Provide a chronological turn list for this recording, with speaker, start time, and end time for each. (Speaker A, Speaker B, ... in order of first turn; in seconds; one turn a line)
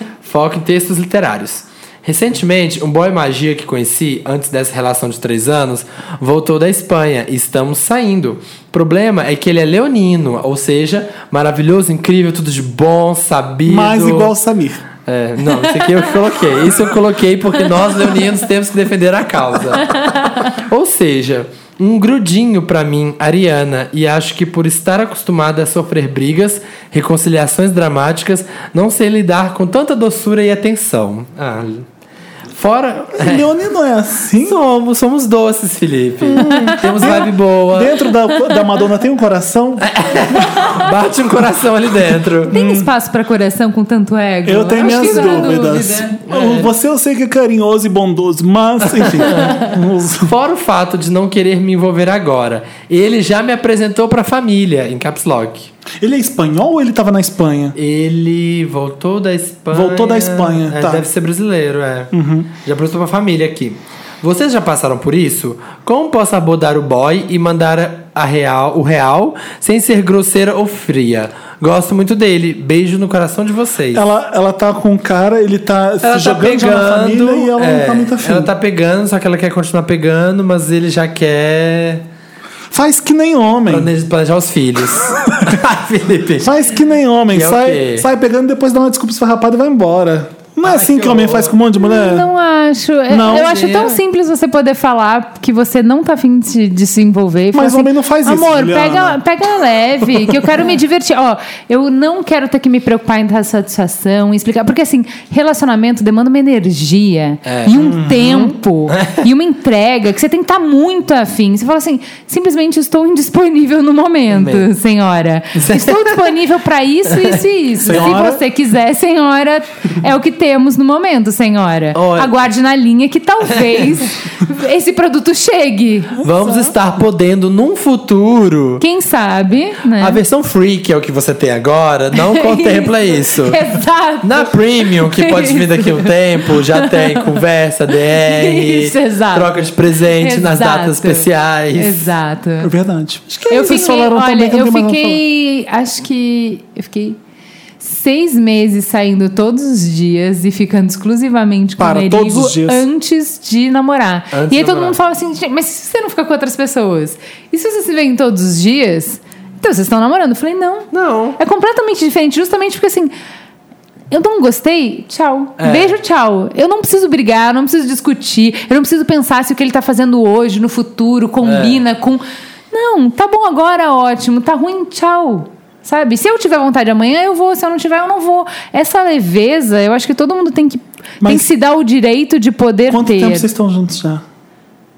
Speaker A: 0.2-14.3
Speaker B: 13.7-14.8
Speaker A: 15.1-31.9
Speaker C: 19.9-20.3
Speaker A: 32.5-33.5
Speaker B: 33.1-34.6
Speaker A: 34.4-38.0
Speaker B: 36.2-39.9
Speaker A: 39.8-42.5
Speaker B: 42.5-42.9
Speaker C: 42.5-46.2
Speaker B: 44.4-50.3
Speaker A: 44.8-46.7
Speaker A: 48.9-49.6
Speaker A: 50.2-55.7
Speaker B: 56.0-57.8
Speaker A: 57.8-62.1
Speaker B: 59.7-61.1
Speaker B: 62.1-62.5
Speaker A: 62.6-74.1
Speaker B: 73.9-78.5
Speaker A: 76.0-82.0
Speaker B: 82.7-83.9
Speaker A: 83.7-86.5
Speaker B: 85.1-85.6
Speaker B: 86.4-92.3
Speaker A: 87.3-88.1
Speaker A: 90.6-91.5
Speaker C: 91.8-126.7
Speaker B: 93.1-93.5
Speaker A: 93.2-94.0
Speaker B: 97.5-99.2
Speaker B: 100.0-100.4
Speaker A: 107.4-107.7
Speaker B: 107.7-108.6
Speaker A: 108.9-109.2
Speaker A: 114.3-114.7
Speaker A: 115.6-116.3
Speaker A: 117.1-118.2
Speaker B: 117.8-118.4
Speaker A: 121.9-122.4
Speaker A: 126.2-128.8
Speaker C: 128.8-130.2
Speaker A: 130.0-133.6
Speaker C: 132.2-137.4
Speaker A: 134.2-142.1
Speaker C: 138.1-139.5
Speaker C: 140.0-142.7
Speaker B: 142.6-145.2
Speaker C: 143.5-147.2
Speaker C: 147.8-163.1
Speaker B: 151.8-152.8
Speaker A: 154.3-154.9
Speaker A: 160.9-161.4
Speaker C: 164.1-183.4
Speaker A: 165.6-165.9
Speaker A: 171.4-171.8
Speaker B: 181.2-181.5
Speaker B: 182.9-184.2